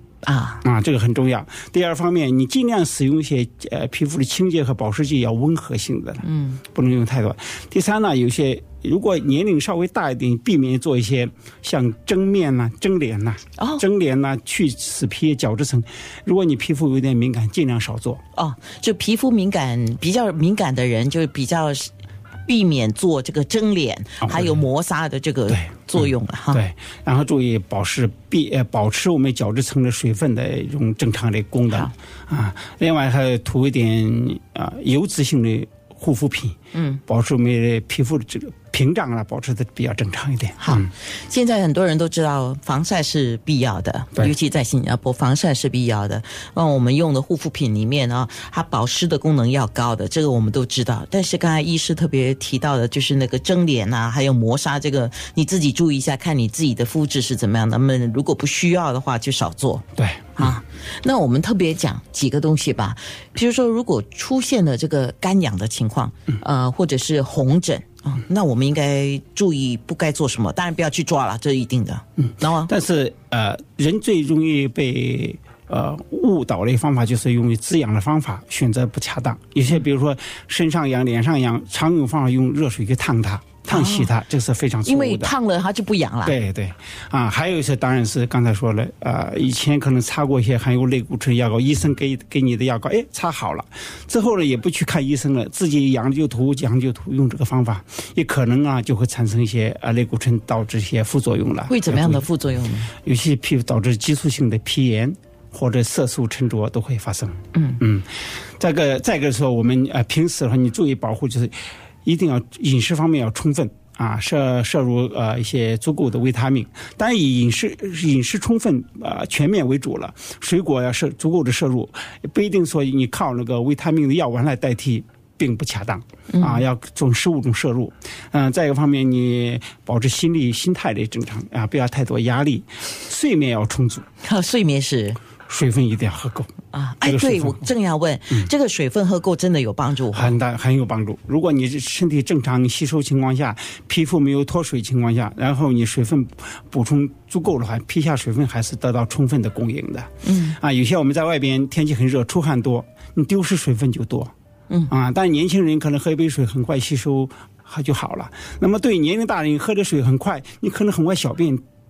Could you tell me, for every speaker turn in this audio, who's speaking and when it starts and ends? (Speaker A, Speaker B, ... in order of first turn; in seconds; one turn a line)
Speaker A: 0.2-0.6
Speaker B: 0.6-18.2
Speaker A: 6.2-6.6
Speaker A: 13.6-13.8
Speaker A: 18.3-21.9
Speaker A: 22.4-26.6
Speaker B: 24.2-24.6
Speaker B: 25.5-36.5
Speaker A: 36.7-37.0
Speaker B: 37.1-40.9
Speaker A: 40.6-72.7
Speaker B: 60.0-60.6
Speaker B: 72.2-85.3
Speaker A: 83.7-84.1
Speaker A: 84.8-86.4
Speaker B: 86.2-102.2
Speaker A: 101.7-102.9
Speaker B: 103.0-134.1
Speaker A: 107.5-107.8
Speaker A: 126.3-126.7
Speaker A: 134.2-135.2
Speaker B: 135.5-136.5
Speaker A: 136.7-140.4
Speaker B: 137.0-137.7
Speaker B: 140.1-154.3
Speaker A: 150.2-150.6
Speaker B: 154.9-161.6